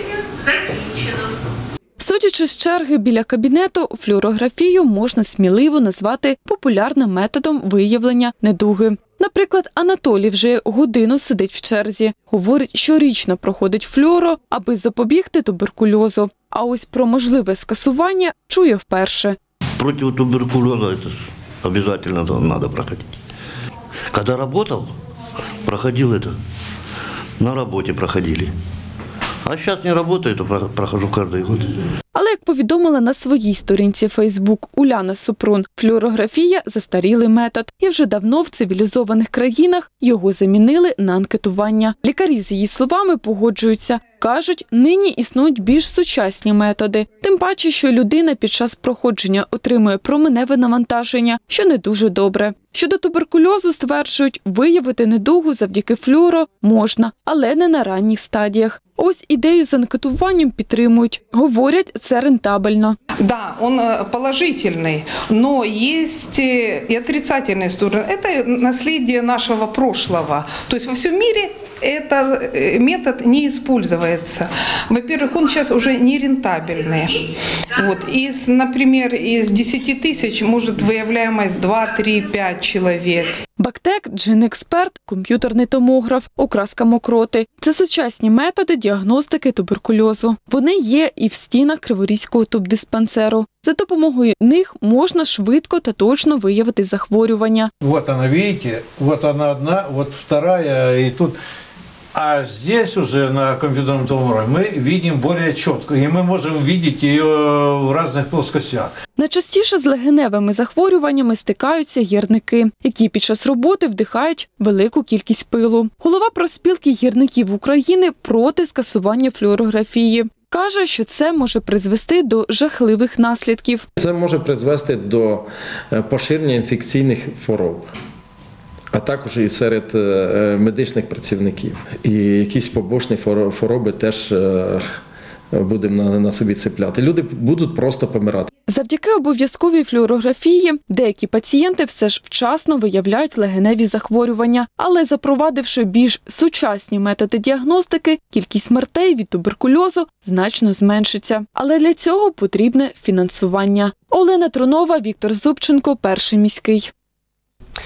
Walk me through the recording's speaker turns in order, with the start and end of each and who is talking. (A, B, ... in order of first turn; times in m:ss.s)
0:02.0-0:19.4 A
0:19.8-0:23.1 B
0:24.1-0:24.9 B
0:25.6-0:26.4 B
0:27.4-0:28.5 B
0:29.4-0:31.8 B
0:32.1-1:03.0 A
1:03.3-1:17.0 C
1:17.8-1:23.3 C
1:23.6-1:37.7 A
1:37.8-1:41.3 D
1:42.1-1:48.9 D
1:49.2-2:03.9 A
2:04.0-2:07.9 E
2:08.9-2:14.8 E
2:15.5-2:18.5 E
2:18.7-2:36.9 A